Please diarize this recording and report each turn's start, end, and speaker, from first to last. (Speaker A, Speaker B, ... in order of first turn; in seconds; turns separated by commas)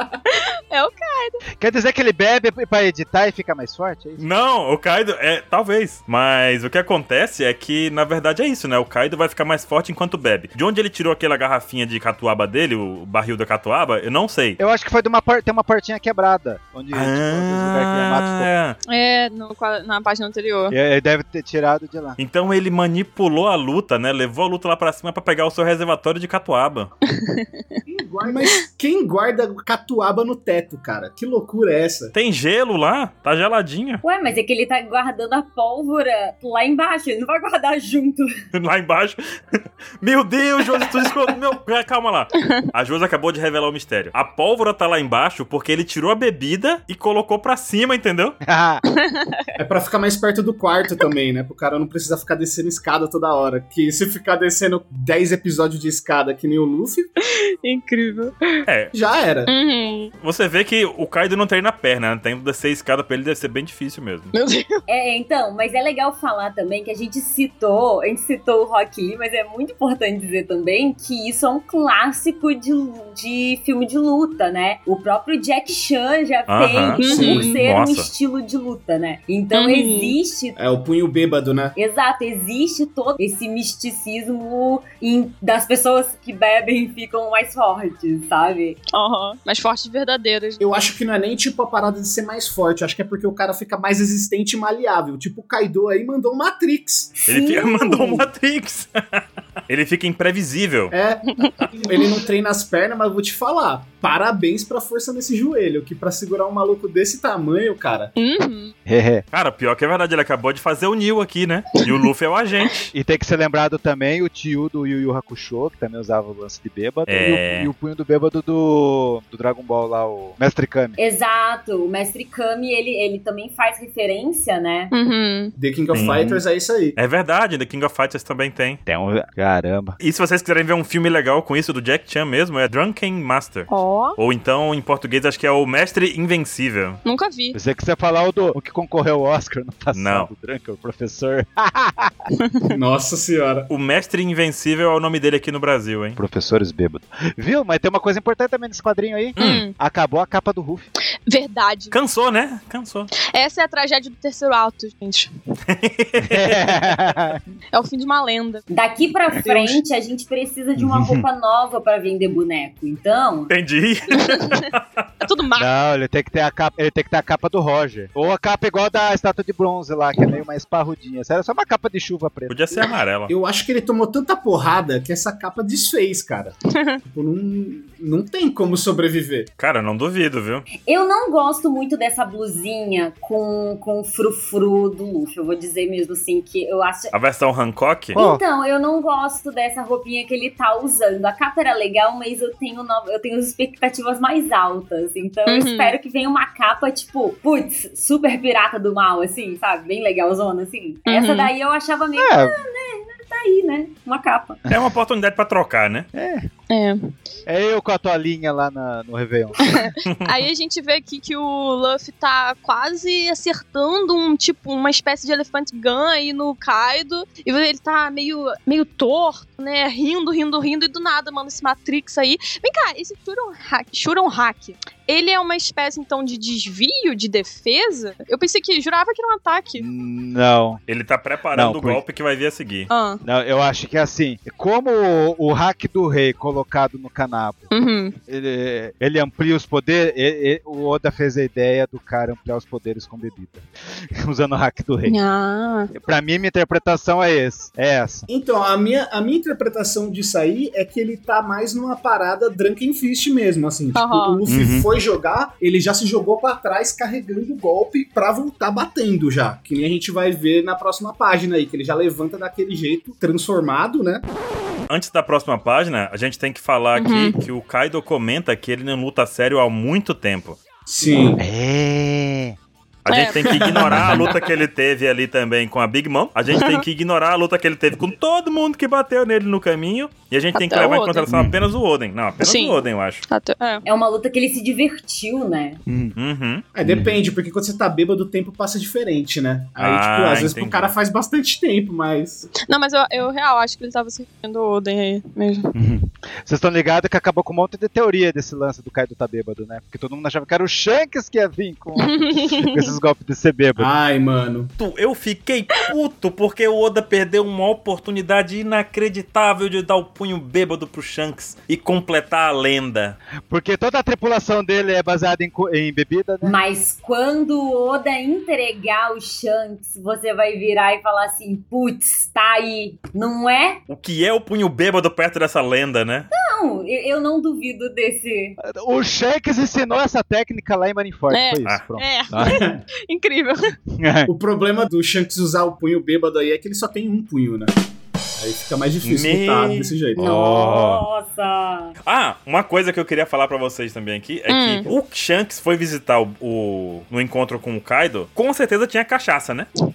Speaker A: 0.3-1.4, Speaker B: 1.6-4.2, Speaker C: 4.2-14.6, Speaker B: 14.6-18.5, Speaker C: 16.9-18.8, Speaker A: 18.9-20.8, Speaker B: 20.7-22.2, Speaker C: 22.2-26.9, Speaker A: 27.1-27.8, Speaker D: 27.9-32.1, Speaker C: 32.1-34.0, Speaker E: 34.0-38.3, Speaker C: 38.5-48.4, Speaker A: 42.4-42.7, Speaker B: 48.5-48.8, Speaker A: 49.0-49.5, Speaker D: 49.6-57.1, Speaker A: 57.6-58.6, Speaker C: 58.7-58.9, Speaker D: 58.9-59.5, Speaker A: 59.5-60.1, Speaker C: 60.2-64.3, Speaker A: 64.3-64.8, Speaker E: 64.9-80.6, Speaker C: 76.5-78.1, Speaker A: 77.0-77.6, Speaker D: 77.1-77.6, Speaker A: 79.5-80.2, Speaker D: 80.6-81.8, Speaker E: 81.8-88.8, Speaker A: 89.0-90.6, Speaker D: 90.6-97.2, Speaker C: 97.3-100.9, Speaker E: 97.3-98.2, Speaker D: 100.9-108.1, Speaker A: 108.2-108.7, Speaker B: 108.9-109.2, Speaker C: 109.3-112.9, Speaker B: 112.9-121.0, Speaker C: 117.1-117.7, Speaker E: 121.0-124.9, Speaker A: 124.9-125.5, Speaker D: 125.6-127.0, Speaker C: 125.9-126.2, Speaker B: 126.0-126.4, Speaker C: 127.0-128.8, Speaker B: 128.9-130.0, Speaker C: 130.0-137.0, Speaker A: 133.7-134.2, Speaker A: 137.1-137.6, Speaker B: 137.5-142.1, Speaker C: 139.9-140.3, Speaker A: 142.4-142.8, Speaker D: 142.7-143.7, Speaker C: 143.7-146.2, Speaker B: 146.2-150.9, Speaker A: 149.4-149.7, Speaker C: 149.4-149.7, Speaker A: 151.3-151.9, Speaker C: 151.9-153.1, Speaker A: 153.3-155.3, Speaker C: 155.7-156.8, Speaker B: 156.2-157.4, Speaker A: 157.7-158.6, Speaker E: 158.7-163.5, Speaker A: 159.4-159.8, Speaker B: 160.8-161.2, Speaker C: 163.5-165.0, Speaker A: 164.2-164.7, Speaker A: 165.2-165.7, Speaker B: 165.6-172.6, Speaker C: 172.5-173.3, Speaker D: 173.3-179.5, Speaker A: 176.8-177.0, Speaker C: 179.6-180.7, Speaker E: 180.8-187.1, Speaker C: 187.1-188.2, Speaker E: 188.1-204.6, Speaker B: 188.2-188.4, Speaker A: 195.5-196.0, Speaker A: 201.1-201.5, Speaker B: 202.2-202.6, Speaker C: 204.7-206.1, Speaker B: 206.1-206.5, Speaker A: 206.7-207.1, Speaker B: 207.5-209.8, Speaker A: 209.7-229.8, Speaker B: 229.8-230.8, Speaker C: 230.9-232.9, Speaker B: 231.5-232.0, Speaker A: 232.9-233.2, Speaker B: 233.2-237.7, Speaker A: 237.7-238.2, Speaker B: 238.3-245.2, Speaker A: 245.1-245.9, Speaker B: 245.9-248.3, Speaker D: 248.3-264.2, Speaker A: 253.9-254.4, Speaker B: 254.5-254.9, Speaker C: 264.9-270.6, Speaker A: 267.0-267.4, Speaker D: 270.9-271.4, Speaker B: 271.4-272.6, Speaker C: 273.1-283.3, Speaker A: 273.1-273.6, Speaker D: 273.5-274.4, Speaker A: 276.6-276.8, Speaker A: 280.5-281.3, Speaker B: 281.3-281.7, Speaker A: 282.4-283.9, Speaker E: 283.9-285.8, Speaker B: 285.9-286.1, Speaker C: 286.2-286.6, Speaker D: 286.7-292.5, Speaker B: 286.9-287.1, Speaker C: 289.8-290.9, Speaker A: 292.7-295.7, Speaker B: 295.8-303.9, Speaker A: 302.0-302.9, Speaker D: 303.8-304.7, Speaker C: 304.8-313.2, Speaker B: 313.5-316.6, Speaker E: 316.4-323.8, Speaker C: 323.9-326.3, Speaker E: 326.3-328.6, Speaker B: 328.6-332.8, Speaker A: 331.3-333.7, Speaker D: 332.4-332.8, Speaker B: 333.9-334.3, Speaker D: 334.3-337.7, Speaker D: 338.4-340.3, Speaker C: 339.0-340.0, Speaker E: 340.2-341.9, Speaker B: 340.2-341.0, Speaker C: 342.1-349.7, Speaker A: 344.5-344.9